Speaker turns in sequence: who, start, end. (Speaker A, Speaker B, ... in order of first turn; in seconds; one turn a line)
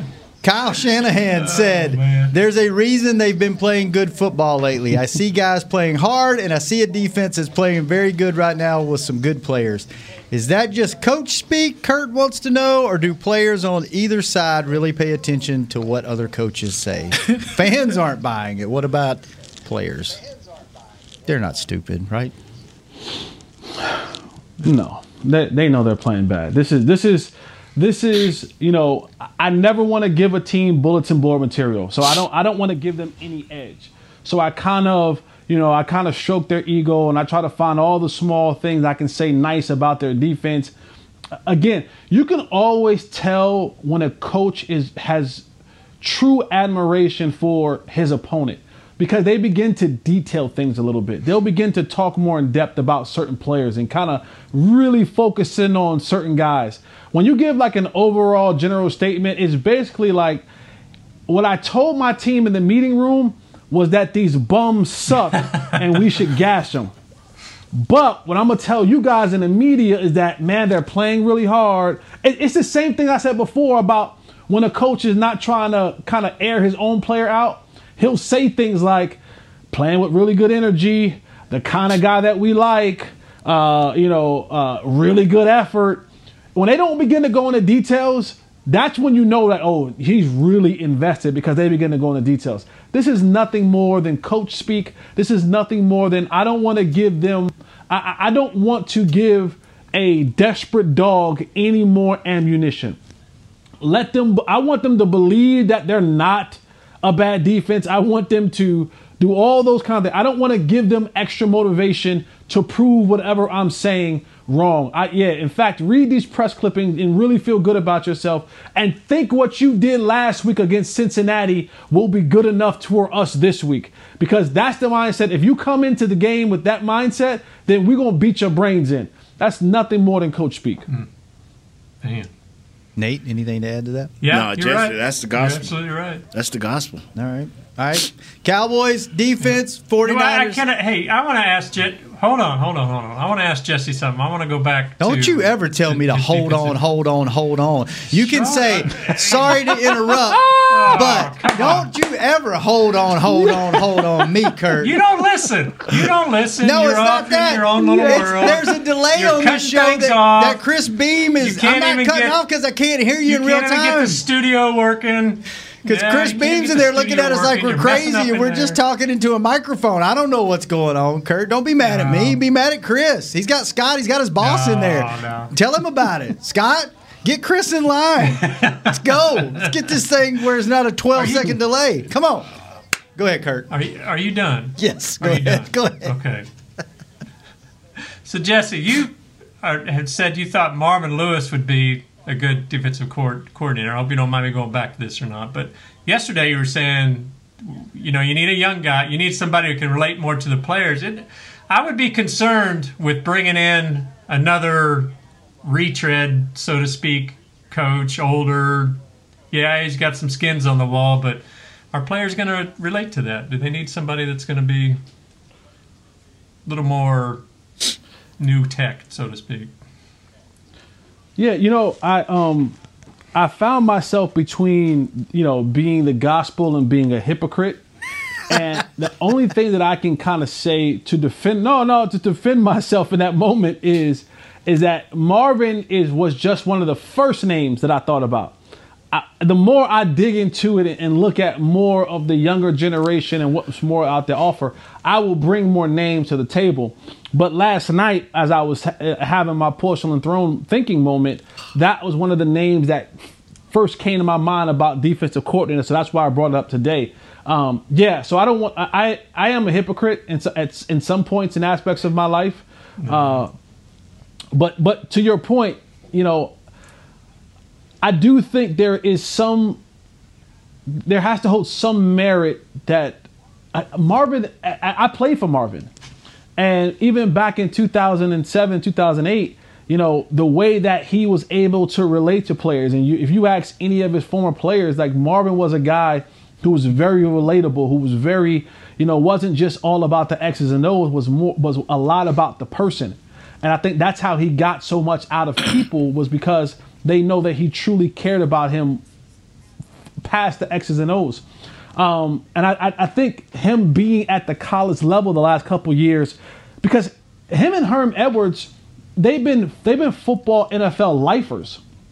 Speaker A: 0.4-20.2
Speaker B: 1.4-2.3
Speaker A: 21.2-22.3
Speaker C: 24.6-40.7
Speaker C: 41.5-45.5
Speaker C: 46.0-60.4
Speaker C: 61.3-66.9
Speaker C: 67.7-79.2
Speaker C: 79.7-86.0
Speaker C: 86.5-103.0
Speaker C: 103.8-130.8
Speaker B: 132.0-132.3
Speaker A: 133.0-134.1
Speaker B: 134.2-136.2
Speaker D: 134.3-135.7
Speaker D: 136.3-137.0
Speaker A: 137.2-140.6
Speaker B: 140.0-146.8
Speaker A: 145.0-155.0
Speaker B: 148.1-151.9
Speaker B: 154.8-160.6
Speaker A: 156.6-164.2
Speaker C: 157.8-158.4
Speaker B: 161.4-162.4
Speaker B: 163.2-168.8
Speaker A: 165.8-182.5
Speaker B: 171.8-172.4
Speaker B: 174.4-175.5
Speaker B: 178.4-179.7
Speaker B: 181.2-181.5
Speaker A: 183.2-183.7
Speaker B: 183.7-186.4
Speaker A: 184.8-186.1
Speaker B: 188.2-209.0
Speaker B: 209.5-215.0
Speaker B: 216.7-217.4
Speaker B: 218.4-219.7
Speaker C: 221.4-222.8
Speaker C: 223.3-227.8
Speaker C: 228.5-238.6
Speaker C: 239.1-253.1
Speaker C: 253.7-263.5
Speaker B: 263.0-263.4
Speaker C: 264.5-266.5
Speaker C: 268.0-269.8
Speaker C: 271.0-275.9
Speaker C: 276.6-299.0
Speaker C: 300.2-301.4
Speaker C: 301.9-311.8